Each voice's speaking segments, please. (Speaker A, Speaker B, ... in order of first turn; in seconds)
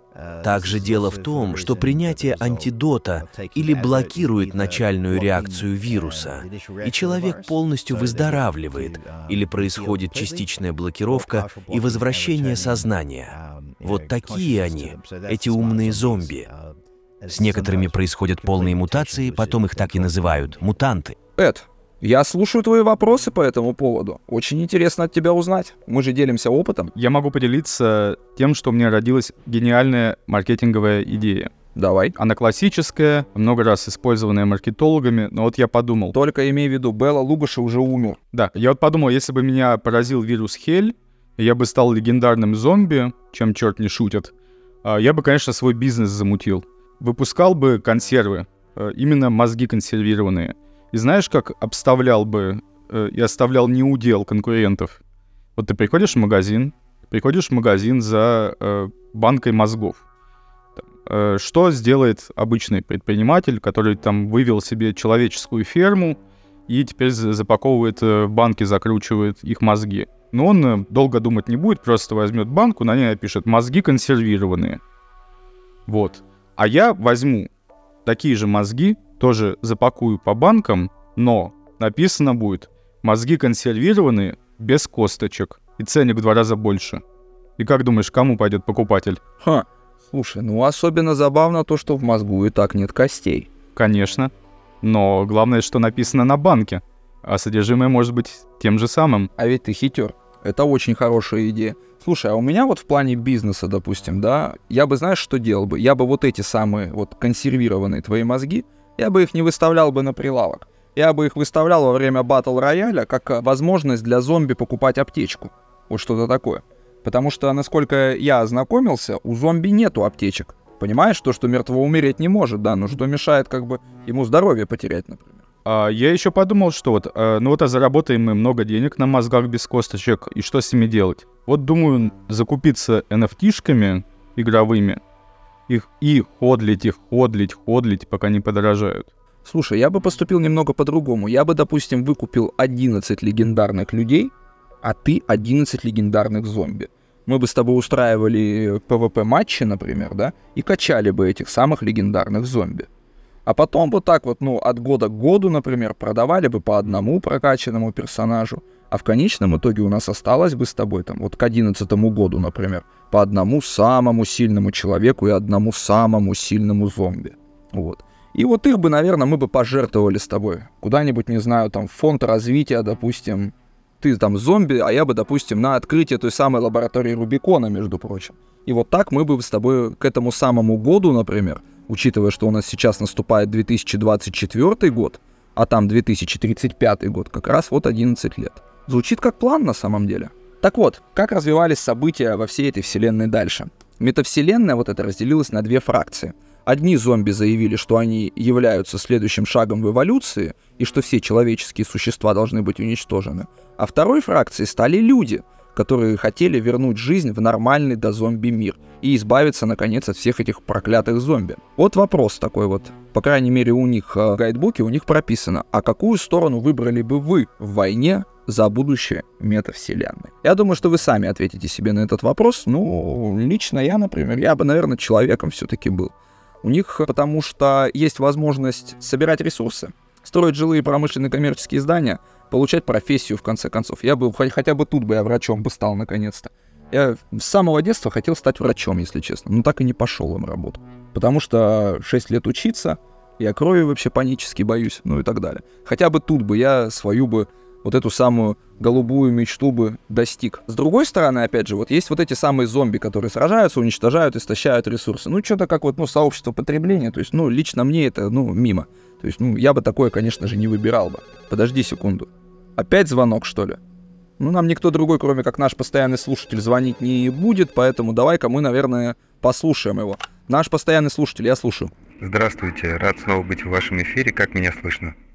Speaker A: 0.4-16.5, 17.3-21.1
Speaker B: 21.4-26.9, 31.8-32.2, 36.1-38.2, 89.4-93.5, 99.4-125.4, 139.4-152.9, 153.5-263.8, 264.4-271.9
Speaker C: 27.0-31.5, 32.2-36.1, 38.3-44.3, 44.8-55.0, 55.6-60.0, 60.8-74.8, 75.9-77.5, 78.0-87.0, 87.6-89.2, 93.8-99.3, 125.7-135.0, 135.7-139.1
Speaker D: 272.2-275.1